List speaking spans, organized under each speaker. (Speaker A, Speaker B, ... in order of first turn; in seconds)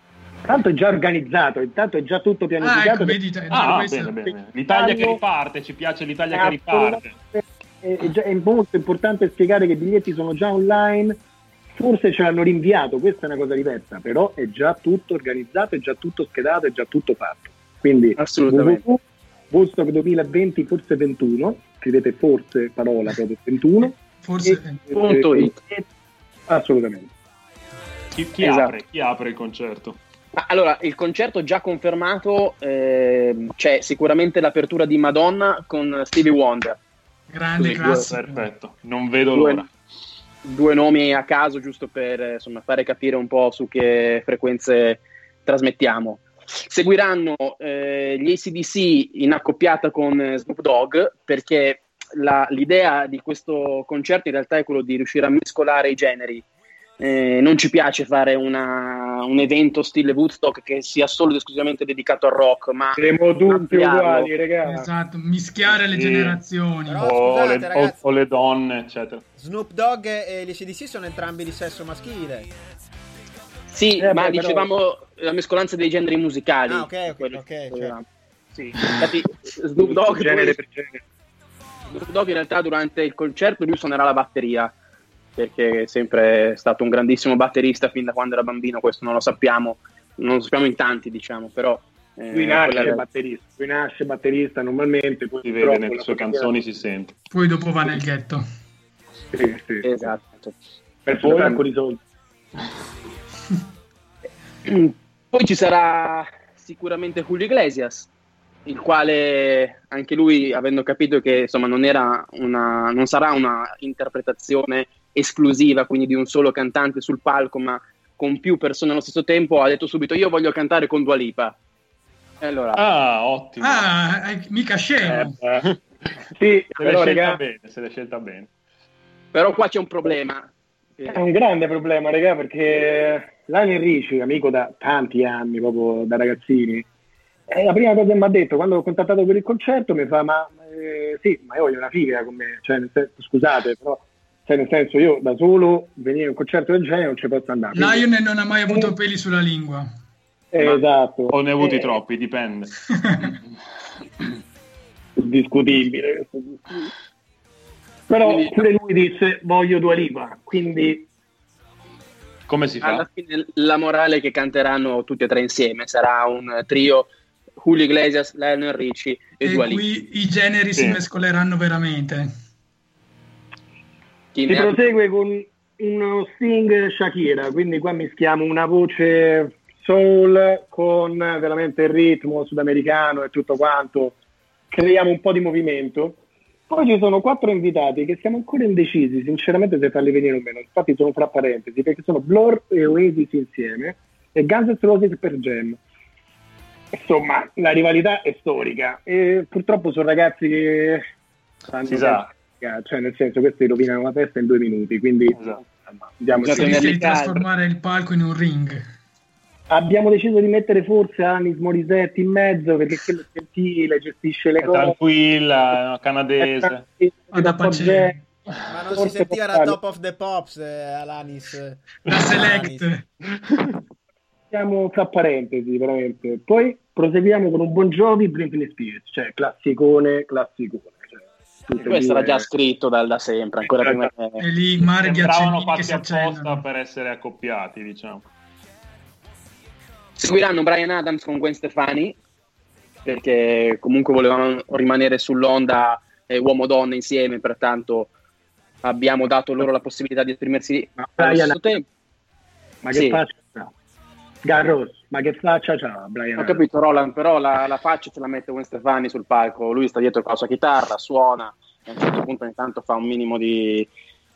Speaker A: 0.4-3.8, 4.7-5.2, 6.3-11.2, 11.7-25.9, 26.5-27.1, 63.0-64.8, 74.0-74.7, 79.8-81.0, 92.3-96.5, 99.3-99.8, 101.0-102.0, 126.4-127.4, 131.1-136.8, 137.5-148.1, 150.5-152.0, 155.2-156.9, 158.1-161.1, 174.5-184.2, 184.7-195.8, 196.9-201.0, 201.7-207.0, 209.7-214.9, 216.4-218.1, 218.9-219.8, 224.5-232.4, 233.7-234.1, 251.0-251.7, 252.8-253.7, 254.4-256.6
Speaker B: 2.6-4.2, 24.2-24.9, 37.3-38.5, 64.6-67.0, 97.3-98.4, 123.6-125.3, 147.7-149.9, 152.9-153.3, 169.4-172.3, 206.5-208.8, 217.3-218.2, 222.1-223.0, 234.4-236.6
Speaker C: 3.5-7.1, 28.1-30.0, 37.8-39.7, 65.9-66.4, 67.0-69.2, 95.4-97.1, 122.7-123.9, 126.8-128.5, 150.6-152.7, 162.5-163.0, 170.7-171.0, 201.9-202.3, 205.3-205.6, 214.6-216.8, 234.8-238.2
Speaker D: 18.1-18.8, 24.9-25.5, 28.4-28.7, 30.3-36.8, 37.6-38.1, 39.3-39.6, 40.4-56.4, 57.0-64.3, 73.7-78.0, 78.6-80.6, 81.9-84.7, 85.3-93.0, 99.8-100.5, 101.2-101.6, 104.6-108.1, 108.7-121.5, 122.4-122.8, 129.3-131.2, 158.2-158.6, 162.8-167.1, 167.6-169.8, 174.3-174.8, 206.4-207.4, 231.8-234.4, 240.2-242.2, 243.1-248.1, 248.8-251.8, 252.9-253.2, 256.4-263.9
Speaker E: 66.9-68.0, 69.4-72.5, 76.7-78.0, 218.7-222.9